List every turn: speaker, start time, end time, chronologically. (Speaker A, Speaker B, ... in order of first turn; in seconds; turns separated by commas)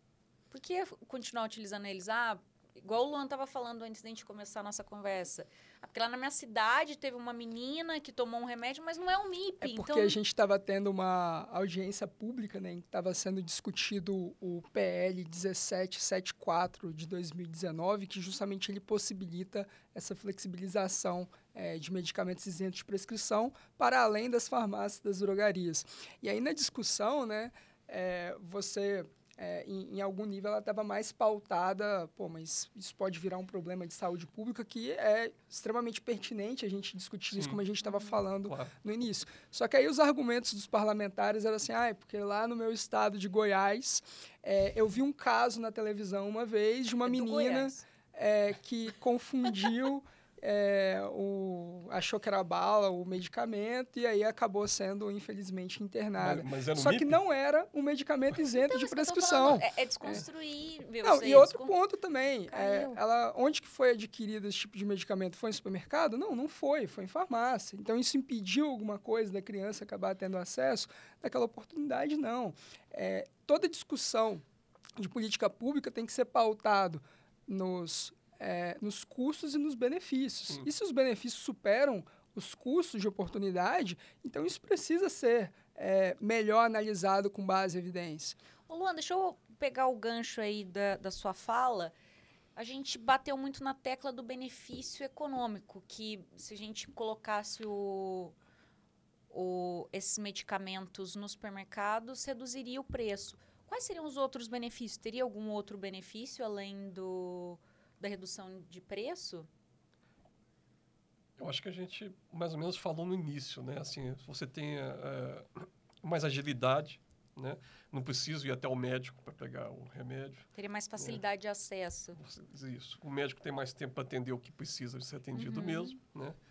Speaker A: 0.5-10.2, Speaker B: 9.6-60.2, Speaker C: 37.3-37.6, Speaker A: 37.9-38.2, Speaker C: 38.4-38.7, Speaker A: 47.1-47.8, Speaker C: 56.2-57.2, Speaker A: 58.6-61.7, Speaker B: 61.0-74.4, Speaker A: 62.5-63.0, Speaker B: 75.0-88.4, Speaker A: 88.7-91.9, Speaker A: 92.6-98.3, Speaker A: 99.3-109.5, Speaker C: 111.4-121.2, Speaker A: 120.5-122.2, Speaker C: 122.2-126.4, Speaker A: 125.3-126.0